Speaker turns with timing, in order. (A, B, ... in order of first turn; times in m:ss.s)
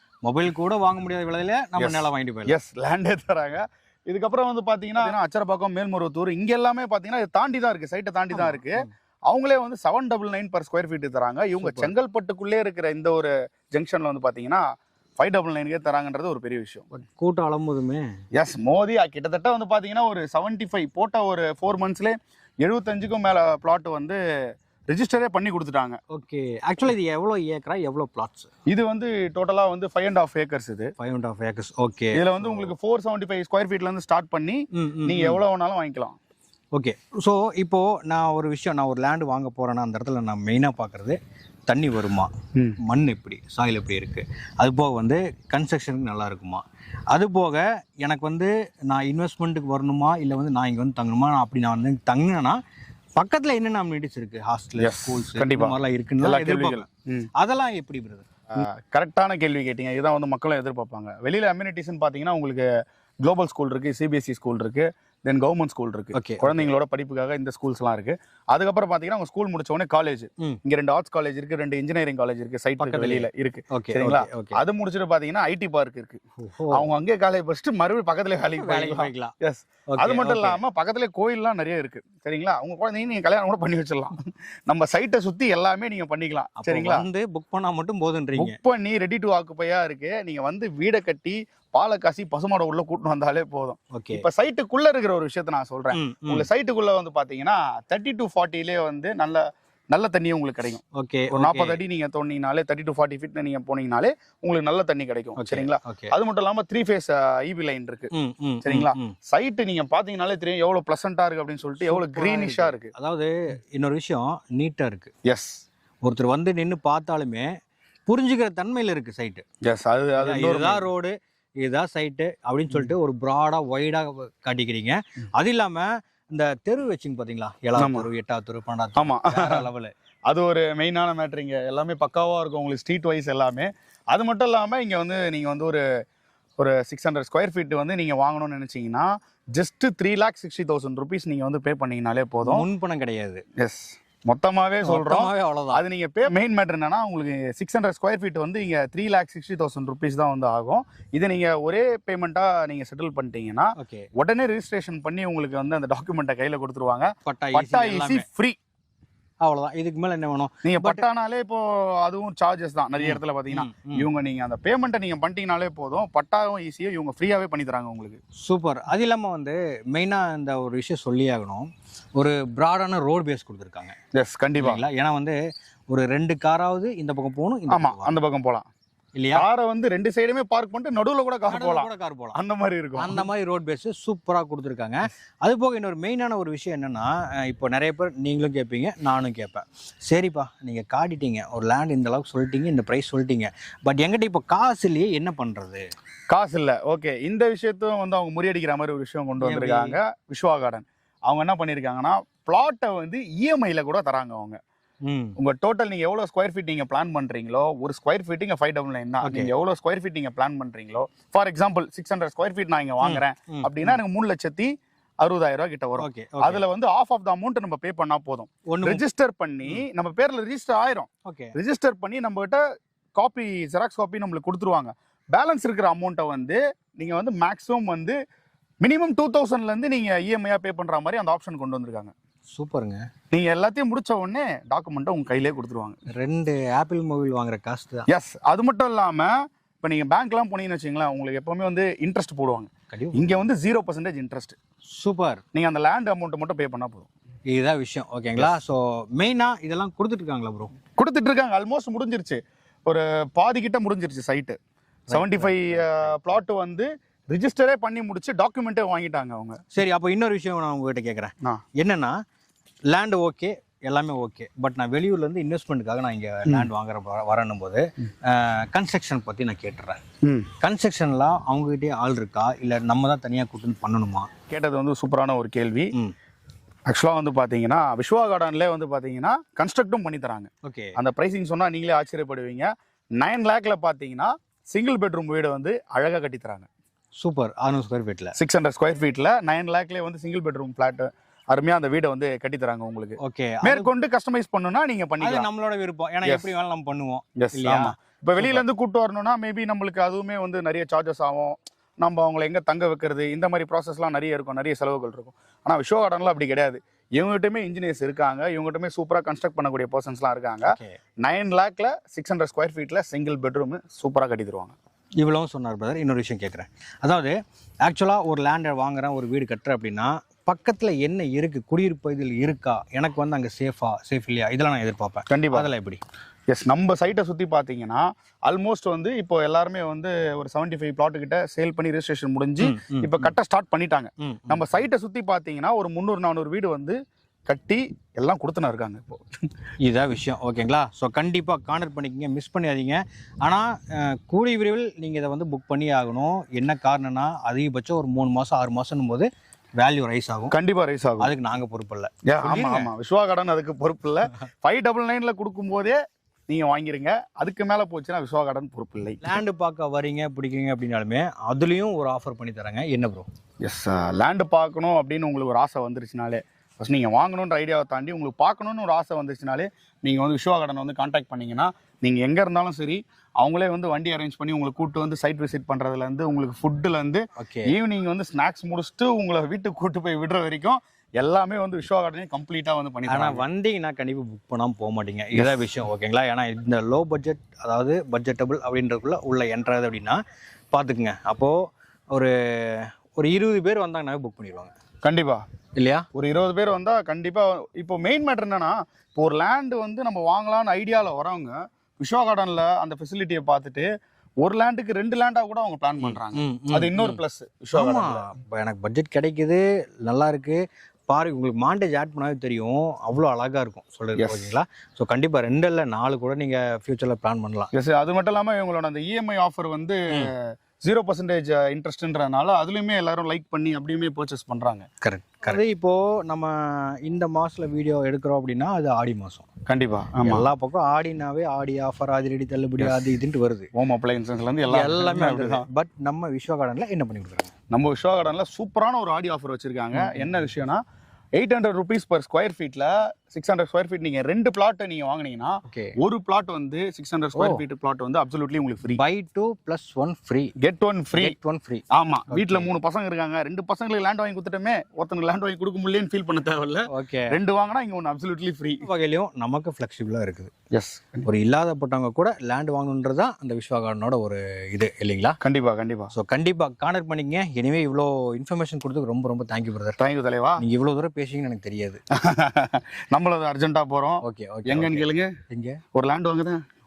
0:00.2-0:02.6 A
0:01.8-0:14.6 B
0:08.3-0:08.9 A
0:11.6-0:11.9 A
0:15.2-0:16.9 B
0:16.9-0:18.1 A
0:18.4-0:24.2 B
0:24.9-0:26.0 B
0:26.1-0:28.5 A
0:28.7-0:30.9 B
0:31.0-0:32.7 A
0:32.1-0:36.2 B
0:34.7-0:35.4 A
0:36.7-0:42.3 A
0:42.8-0:52.6 A
0:53.2-0:58.3 A
0:54.8-0:57.3 B
0:58.5-1:02.6 B
1:03.2-1:16.2 B
1:06.1-1:06.7 A
1:12.8-1:14.6 A
1:16.4-1:16.9 A
1:16.7-1:27.0 B
1:18.6-1:19.3 A
1:19.9-1:20.6 A
1:26.6-1:28.6 A
1:28.4-1:48.1 B
1:33.9-1:34.2 A
1:35.9-1:36.5 A
1:40.9-1:41.8 A
1:45.4-1:46.1 A
1:48.1-1:49.1 A
1:48.6-1:52.9 B
1:51.8-1:55.1 A
1:55.2-1:55.6 B
1:56.0-1:57.5 A
1:58.1-1:59.4 A
1:59.6-2:00.9 B
2:00.2-2:09.9 A
2:07.8-2:08.1 B
2:09.0-2:09.6 B
2:10.3-2:15.8 B
2:16.6-2:22.6 B
2:22.4-2:23.4 A
2:23.6-2:38.6 B
2:24.8-2:25.8 A
2:33.8-2:34.1 A
2:37.2-2:38.2 A
2:39.4-2:41.0 A
2:40.6-2:48.2 B
2:43.0-2:44.0 A
2:48.4-2:53.9 A
2:54.1-2:54.8 B
2:54.6-2:55.3 A
2:55.9-2:58.1 A
2:57.7-2:58.7 B
2:59.1-2:59.4 A
2:59.3-3:03.2 B
3:01.5-3:02.4 A
3:03.0-3:15.8 A
3:16.3-3:24.6 B
3:19.4-3:20.0 A
3:25.0-3:25.3 A
3:25.4-3:42.6 B
3:29.2-3:29.5 A
3:33.0-3:34.0 A
3:36.0-3:36.6 A
3:38.7-3:39.0 A
3:41.2-3:41.5 A
3:43.2-3:48.2 B
3:48.8-3:52.1 B
3:52.5-3:53.0 A
3:53.3-3:56.0 B
3:56.1-3:58.1 A
3:58.1-3:59.3 B
3:59.8-4:04.6 B
4:02.9-4:03.4 A
4:04.9-4:05.4 A
4:05.5-4:07.1 B
4:07.5-4:10.7 A
4:11.0-4:14.6 B
4:15.1-4:16.4 A
4:15.1-4:19.6 B
4:19.7-4:22.2 A
4:22.9-4:30.0 A
4:30.2-4:30.5 B
4:30.6-4:34.3 A
4:34.5-4:35.9 B
4:36.9-4:42.7 B
4:40.6-4:41.0 A
4:43.2-4:46.7 B
4:47.2-4:48.3 A
4:48.3-4:55.5 B
4:53.2-4:53.9 A
4:55.2-4:58.6 A
4:56.2-4:56.5 B
4:57.4-5:14.7 B
5:10.6-5:11.0 A
5:15.2-5:26.0 A
5:25.3-5:25.7 B
5:26.5-5:37.0 B
5:32.6-5:33.3 A
5:34.2-5:34.8 A
5:37.5-5:39.2 B
5:39.8-5:49.3 A
5:49.8-5:50.5 A
5:50.5-5:51.3 B
5:51.2-5:52.9 A
5:52.2-5:56.0 B
5:56.5-5:59.4 B
5:59.2-6:03.3 A
6:03.6-6:23.4 B
6:17.4-6:17.7 A
6:23.1-6:30.2 A
6:25.3-6:25.6 B
6:30.7-6:34.7 A
6:35.0-6:35.4 B
6:35.7-6:36.1 A
6:36.1-6:43.9 B
6:44.4-6:48.3 B
6:46.0-6:47.2 A
6:47.7-6:57.7 A
6:54.2-6:54.5 B
6:57.7-7:04.8 B
7:05.0-7:09.4 A
7:09.7-7:10.5 B
7:10.2-7:13.7 A
7:13.7-7:15.6 B
7:14.7-7:17.5 A
7:17.7-7:20.8 B
7:19.9-7:20.3 A
7:21.4-7:29.0 B
7:25.7-7:25.9 A
7:27.3-7:27.6 A
7:28.9-7:30.5 A
7:30.6-7:31.4 B
7:31.2-7:32.7 A
7:31.9-7:38.9 B
7:36.9-7:37.3 A
7:38.8-7:40.5 A
7:40.7-7:41.3 B
7:41.2-7:45.4 A
7:45.4-7:46.1 B
7:46.1-7:50.0 A
7:50.0-7:50.6 B
7:50.6-7:52.0 A
7:52.2-7:55.3 B
7:54.2-7:55.8 A
7:55.9-7:56.6 B